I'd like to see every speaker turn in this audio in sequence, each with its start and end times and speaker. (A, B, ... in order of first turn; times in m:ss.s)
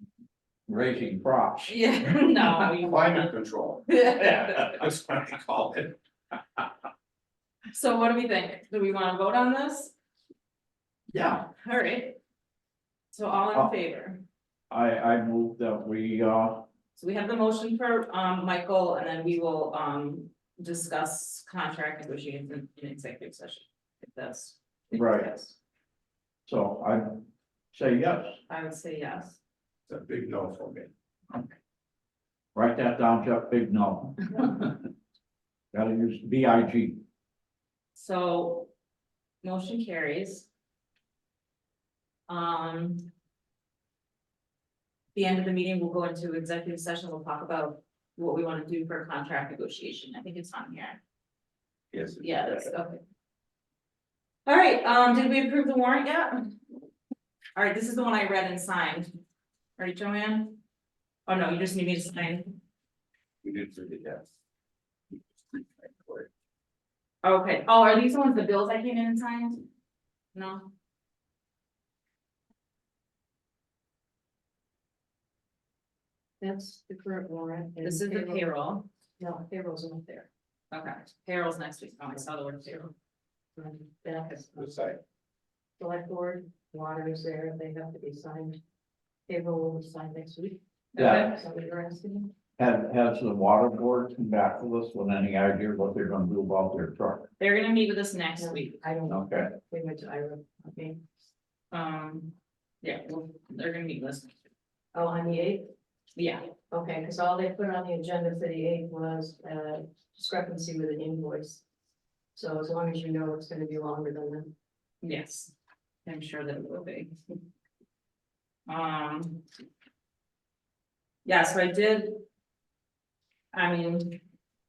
0:00.7-0:01.8 A
0:01.7-0:03.4 B
0:02.5-0:06.0 C
0:03.9-0:04.8 B
0:07.7-0:09.9 B
0:11.1-0:11.5 A
0:11.5-0:12.2 B
0:13.1-0:14.2 B
0:14.7-0:16.7 A
0:17.0-0:25.6 B
0:24.9-0:25.3 A
0:26.5-0:28.4 A
0:28.5-0:29.4 B
0:29.9-0:30.9 C
0:32.6-0:34.6 A
0:35.7-0:37.0 A
0:38.0-0:38.7 B
0:39.4-0:40.5 B
0:42.3-0:43.1 B
0:45.2-0:51.0 B
0:51.9-0:52.7 C
0:52.2-0:53.0 B
0:54.5-0:56.5 B
0:57.6-0:59.2 B
0:59.8-1:00.6 B
1:01.3-1:02.6 B
1:03.4-1:04.3 C
1:05.5-1:06.3 C
1:07.2-1:09.6 B
1:10.4-1:10.7 B
1:16.4-1:18.4 D
1:17.8-1:18.9 B
1:19.2-1:20.3 D
1:20.7-1:22.9 B
1:23.6-1:24.6 D
1:24.6-1:25.0 C
1:25.8-1:28.6 D
1:29.3-1:30.6 D
1:31.0-1:31.4 B
1:31.0-1:31.3 A
1:31.3-1:32.3 D
1:32.6-1:37.3 A
1:37.4-1:38.8 B
1:38.4-1:41.0 D
1:39.1-1:39.5 A
1:41.7-1:44.3 B
1:44.9-1:45.7 D
1:46.2-1:46.5 B
1:46.7-1:51.6 D
1:52.4-1:54.5 D
1:55.0-1:55.5 B
1:56.0-1:57.2 B
1:58.7-1:59.4 B
2:01.2-2:02.2 B
2:03.5-2:04.2 B